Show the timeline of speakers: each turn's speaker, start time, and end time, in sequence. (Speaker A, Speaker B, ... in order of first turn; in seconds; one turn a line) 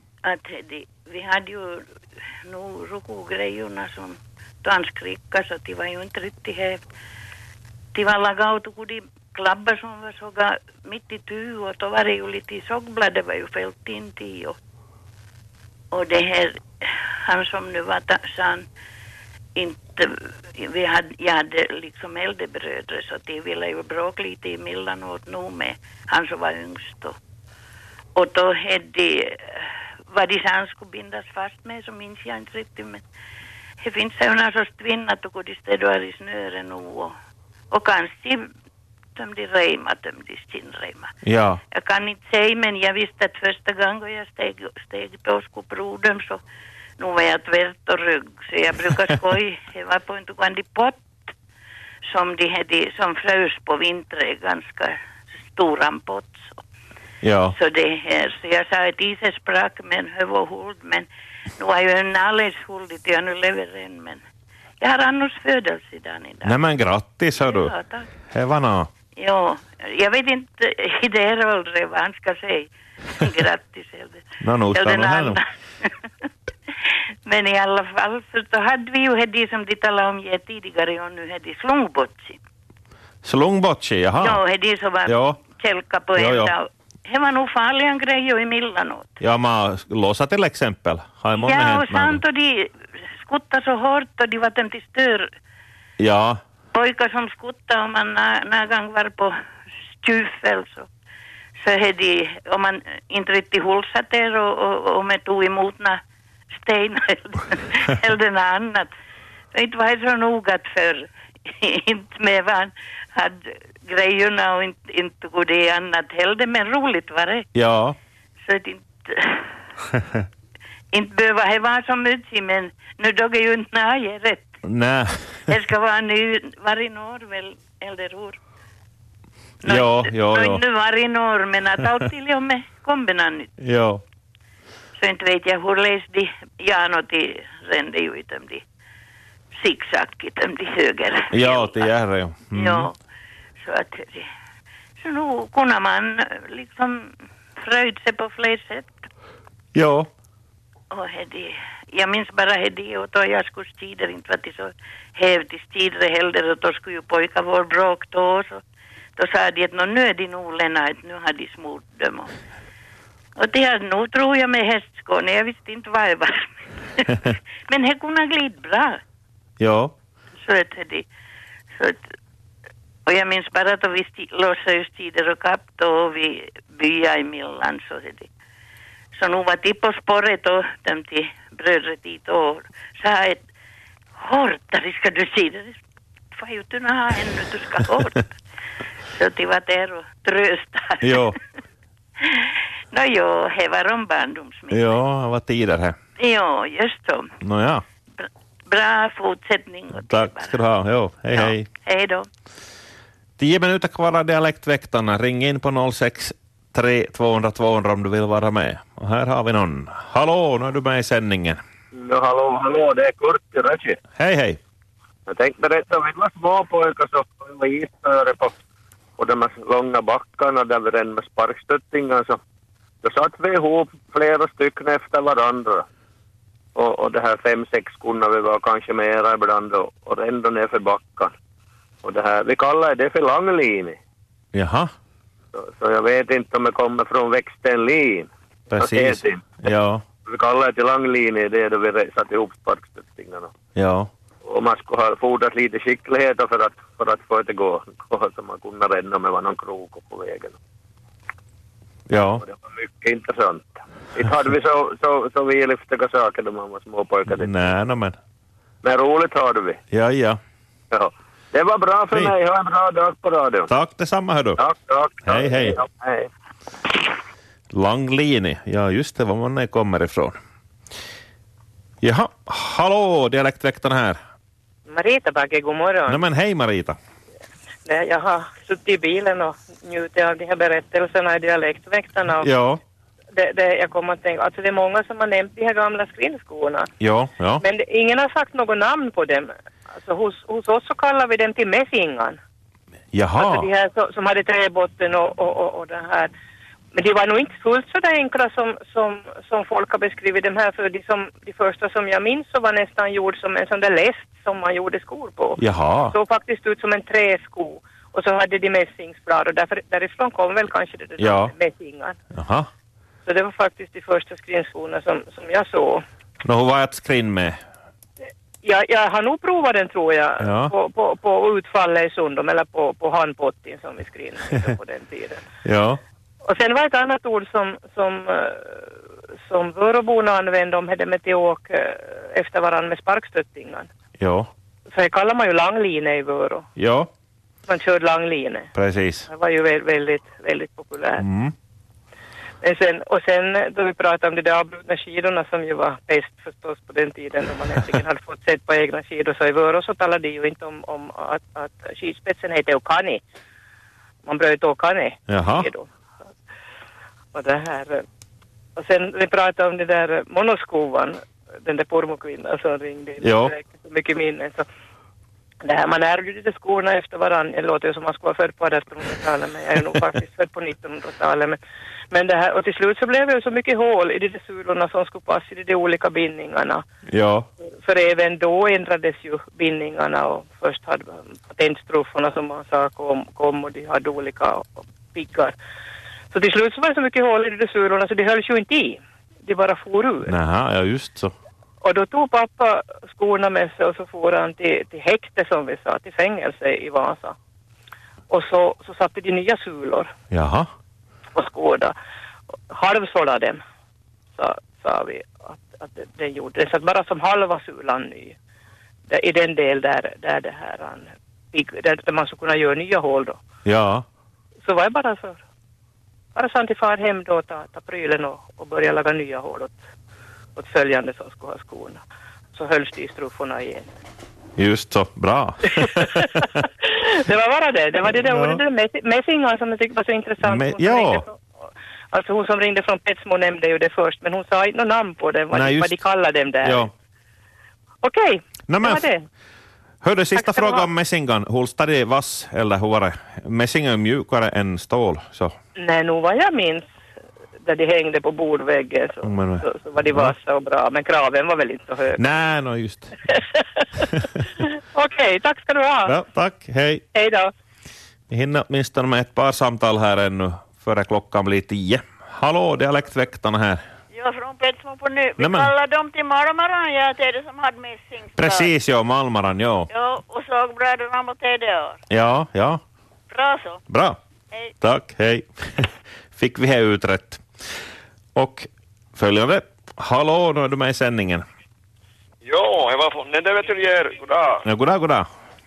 Speaker A: 0.2-1.9
Speaker A: 2.4-6.8
Speaker A: 8.0-14.6
Speaker A: 15.9-18.7
Speaker A: 19.6-27.2
Speaker A: 28.2-33.0
Speaker A: 33.8-37.1
Speaker A: 37.7-38.5
Speaker A: 39.2-41.1
Speaker B: 41.2-41.6
Speaker A: 41.7-46.4
Speaker A: 47.0-51.3
Speaker A: 52.1-55.0
Speaker A: 55.5-56.5
Speaker B: 57.2-57.6
Speaker A: 57.5-64.2
Speaker A: 64.8-66.6
Speaker B: 66.4-67.7
Speaker A: 67.4-68.1
Speaker B: 68.3-68.9
Speaker A: 69.2-76.1
Speaker B: 74.4-75.4
Speaker A: 77.3-82.4
Speaker B: 83.2-84.4
Speaker A: 84.2-89.2
Speaker B: 85.1-85.4
Speaker B: 86.2-86.5
Speaker B: 89.2-92.2
Speaker A: 91.3-95.3
Speaker B: 96.0-96.4
Speaker A: 96.7-99.3
Speaker A: 100.0-100.9
Speaker A: 101.6-106.0
Speaker A: 106.5-108.9
Speaker A: 109.5-117.5
Speaker B: 117.5-118.0
Speaker A: 118.4-119.5
Speaker A: 120.9-124.6
Speaker B: 124.7-125.5
Speaker A: 125.5-128.4
Speaker A: 129.6-133.5
Speaker B: 129.6-130.6
Speaker B: 133.6-134.0
Speaker A: 135.0-138.6
Speaker A: 139.6-141.9
Speaker B: 141.3-142.9
Speaker A: 142.5-143.0
Speaker A: 143.6-144.3
Speaker A: 145.0-149.1
Speaker B: 149.8-150.1
Speaker A: 150.9-158.6
Speaker A: 159.2-162.3
Speaker A: 163.4-169.0
Speaker B: 169.6-169.9
Speaker A: 170.4-171.1
Speaker A: 171.8-172.0
Speaker A: 173.1-178.3
Speaker A: 179.2-183.4
Speaker A: 184.2-185.8
Speaker A: 186.3-188.2
Speaker A: 189.1-191.3
Speaker B: 191.0-191.4
Speaker A: 192.2-194.9
Speaker B: 194.7-196.0
Speaker A: 196.2-197.3
Speaker B: 197.4-197.8
Speaker A: 198.2-200.6
Speaker B: 199.9-201.7
Speaker A: 201.3-202.3
Speaker B: 203.4-211.6
Speaker C: 211.9-214.0
Speaker B: 214.2-214.6
Speaker C: 215.3-218.5
Speaker C: 219.2-222.4
Speaker C: 223.0-225.8
Speaker C: 226.8-231.3
Speaker C: 232.0-234.0
Speaker B: 234.5-234.9
Speaker C: 235.5-239.6
Speaker B: 238.7-240.0
Speaker C: 240.2-243.6
Speaker B: 243.8-244.1
Speaker C: 244.4-250.6
Speaker B: 252.1-252.4
Speaker C: 252.4-257.7
Speaker B: 257.3-258.2
Speaker C: 258.8-259.8
Speaker B: 259.9-260.4
Speaker C: 260.9-263.7
Speaker B: 263.7-264.6
Speaker C: 264.6-266.3
Speaker B: 265.3-265.8
Speaker B: 267.7-270.4
Speaker B: 272.0-274.2
Speaker D: 274.9-276.2
Speaker B: 276.1-277.0
Speaker D: 277.9-282.5
Speaker B: 282.4-282.8
Speaker D: 283.3-286.9
Speaker B: 287.0-287.6
Speaker D: 287.6-292.4
Speaker B: 293.1-293.7
Speaker D: 293.4-296.3
Speaker D: 296.9-312.2
Speaker B: 305.6-306.2
Speaker B: 311.2-311.6
Speaker B: 312.3-312.7
Speaker D: 313.2-316.0
Speaker B: 316.4-317.6
Speaker D: 318.6-325.4
Speaker B: 320.4-320.7
Speaker B: 325.6-326.0
Speaker D: 326.4-333.9
Speaker B: 334.2-334.5
Speaker D: 334.9-336.7
Speaker B: 336.8-337.1
Speaker D: 337.7-338.7
Speaker B: 338.8-339.2
Speaker D: 339.3-341.2
Speaker B: 341.2-341.5
Speaker D: 342.6-353.2
Speaker D: 354.2-355.9
Speaker B: 355.3-355.7
Speaker D: 357.3-358.0
Speaker D: 358.8-364.6
Speaker B: 363.2-363.5
Speaker D: 365.6-371.6
Speaker D: 372.1-376.8
Speaker B: 377.1-377.5
Speaker D: 377.8-385.6
Speaker D: 386.3-390.3
Speaker B: 390.3-391.3
Speaker D: 391.8-397.4
Speaker D: 398.3-400.1
Speaker B: 400.3-400.7
Speaker D: 401.4-401.9
Speaker D: 402.7-403.6
Speaker D: 404.4-408.4
Speaker D: 409.1-413.4
Speaker B: 413.6-414.1
Speaker D: 414.6-415.4
Speaker D: 416.4-419.8
Speaker D: 420.6-422.0
Speaker D: 422.5-423.9
Speaker B: 424.6-426.4
Speaker D: 425.7-431.4
Speaker B: 428.1-428.6
Speaker B: 430.4-431.2
Speaker D: 432.1-436.9
Speaker B: 435.5-436.0
Speaker B: 436.6-436.9
Speaker D: 438.0-439.3
Speaker B: 438.7-439.0
Speaker B: 440.0-445.6
Speaker D: 440.4-440.9
Speaker D: 445.8-446.9
Speaker D: 447.6-452.2
Speaker B: 449.2-450.4
Speaker B: 452.2-453.1
Speaker D: 453.3-456.2
Speaker B: 456.1-457.0
Speaker D: 457.1-457.5
Speaker B: 458.3-463.8
Speaker E: 464.1-468.7
Speaker B: 465.4-465.7
Speaker B: 468.4-469.9
Speaker E: 469.9-472.0
Speaker B: 472.1-472.8
Speaker E: 473.3-473.8
Speaker B: 473.9-474.2
Speaker B: 474.8-477.4
Speaker B: 478.4-481.4
Speaker F: 482.4-484.7
Speaker B: 484.6-485.3